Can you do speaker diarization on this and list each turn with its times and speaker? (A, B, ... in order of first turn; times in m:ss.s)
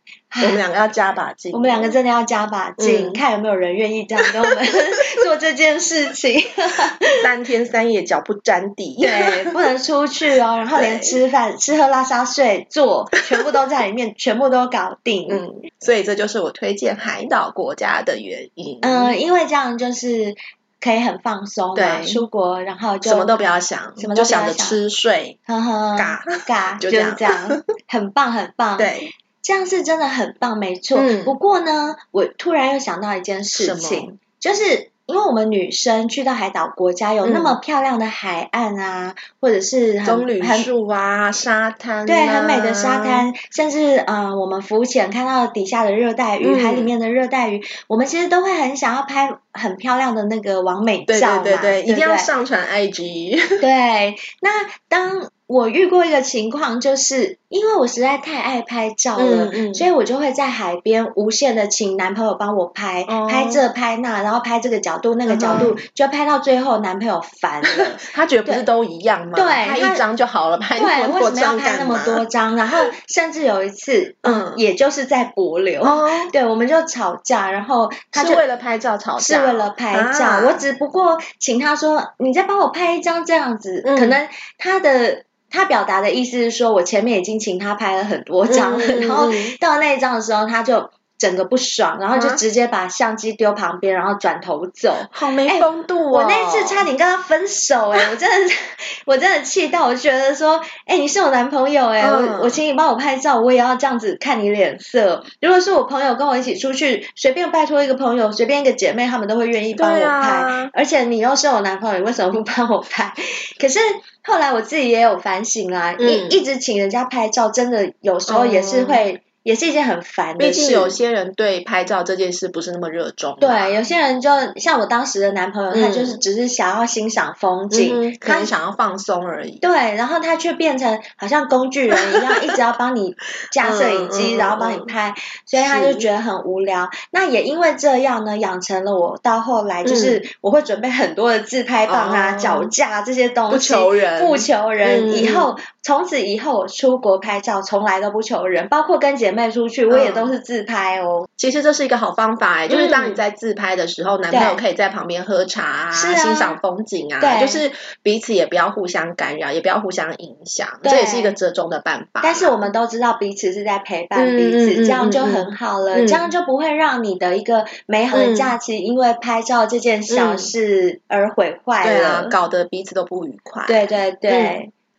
0:00.3-0:00.6 A
0:00.4-0:02.0 B
0:01.5-0:07.2 A
0:02.8-0:03.2 B
0:07.2-0:09.5 B
0:09.0-0:15.4 A
0:10.8-0:11.2 B
0:15.3-0:19.1 B
0:18.8-0:23.4 A
0:21.8-0:22.2 B
0:23.0-0:25.4 B
0:24.0-0:24.8 A
0:25.5-0:40.7 A
0:26.0-0:27.6 B
0:28.8-0:29.1 B
0:31.0-0:31.3 B
0:33.6-0:34.1 B
0:37.2-0:37.6 B
0:40.0-0:43.3 B
0:42.1-0:52.3 A
0:46.4-0:46.9 B
0:51.1-0:53.6 B
0:53.6-1:08.6 A
0:59.2-0:59.9 B
1:03.1-1:03.6 B
1:05.3-1:05.8 B
1:07.8-1:12.2 B
1:09.4-1:10.0 A
1:10.8-1:18.4 A
1:14.2-1:14.6 B
1:15.8-1:16.3 B
1:18.2-1:20.6 B
1:19.2-2:01.0 A
1:23.8-1:24.2 B
1:28.5-1:29.6 B
1:32.1-1:32.4 B
1:35.1-1:36.9 B
1:42.0-1:42.6 B
1:49.8-1:50.7 B
1:56.0-1:56.4 B
1:58.3-1:59.0 B
2:00.4-2:03.8 B
2:03.4-2:08.5 A
2:05.7-2:06.2 B
2:07.7-2:09.6 B
2:09.6-2:31.3 A
2:12.1-2:12.4 B
2:13.6-2:14.9 B
2:15.6-2:16.1 B
2:19.8-2:20.2 B
2:21.9-2:22.7 B
2:23.5-2:25.5 B
2:29.9-2:30.3 B
2:31.4-2:42.6 B
2:32.7-2:33.2 A
2:34.3-2:34.6 A
2:35.9-2:36.6 A
2:37.2-2:37.6 A
2:40.8-2:41.4 A
2:42.2-2:52.4 A
2:44.2-2:46.3 B
2:48.1-2:48.5 B
2:50.1-2:50.5 B
2:51.8-2:54.6 B
2:53.7-2:54.7 A